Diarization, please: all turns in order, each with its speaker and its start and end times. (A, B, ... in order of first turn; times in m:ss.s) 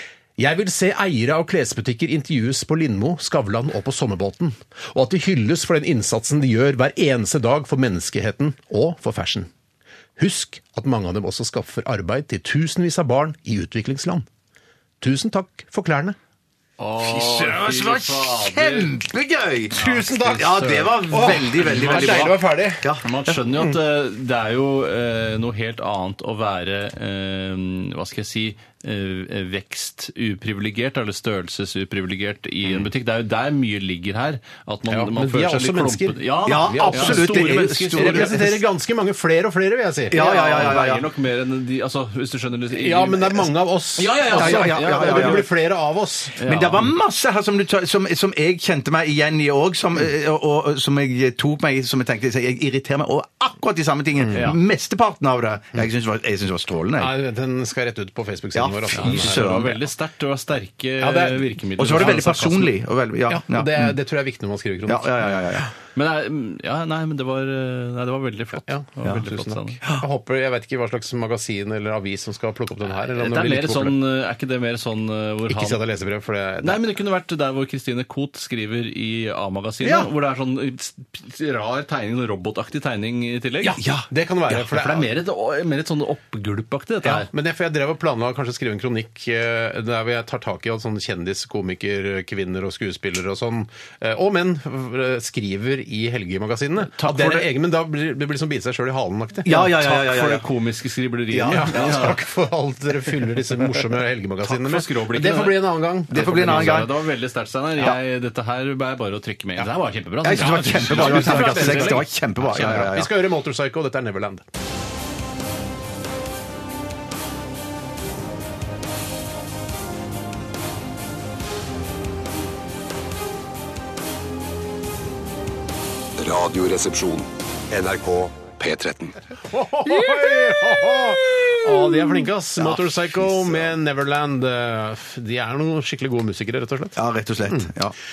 0:00.4-0:09.5 A
0:10.2-0:14.3 A
0:15.0-0:16.2 A
0:16.8-0:19.0 B
0:17.0-0:23.3 C
0:19.7-0:22.4 B
0:19.8-0:22.9 A
0:23.0-0:38.5 B
0:34.9-0:40.8 A
0:36.5-0:38.6 C
0:40.1-0:41.1 C
0:40.1-0:45.5 B
0:42.7-0:46.4 A
0:44.3-0:45.4 C
0:46.4-0:47.0 B
0:46.5-0:57.1 C
0:54.3-0:54.6 B
0:57.0-0:59.8 A
0:58.6-0:59.7 C
0:59.0-1:02.7 B
1:01.0-1:02.4 A
1:01.8-1:03.9 C
1:03.3-1:05.1 A
1:04.9-1:05.7 C
1:06.0-1:09.8 B
1:08.7-1:14.0 A
1:13.0-1:15.8 B
1:15.5-1:16.8 A
1:16.6-1:23.8 B
1:23.7-1:24.1 C
1:24.1-1:25.1 A
1:24.5-1:27.3 B
1:27.0-1:39.6 A
1:37.0-1:37.4 B
1:37.1-1:37.4 C
1:39.4-1:40.4 C
1:39.5-1:42.2 B
1:41.3-1:42.1 C
1:41.5-1:46.9 A
1:44.4-1:52.9 B
1:46.1-1:46.9 C
1:50.2-1:53.1 C
1:50.4-1:54.4 A
2:06.2-2:09.2 D
2:09.5-2:17.0 A
2:09.9-2:13.6 C
2:17.0-2:18.0 C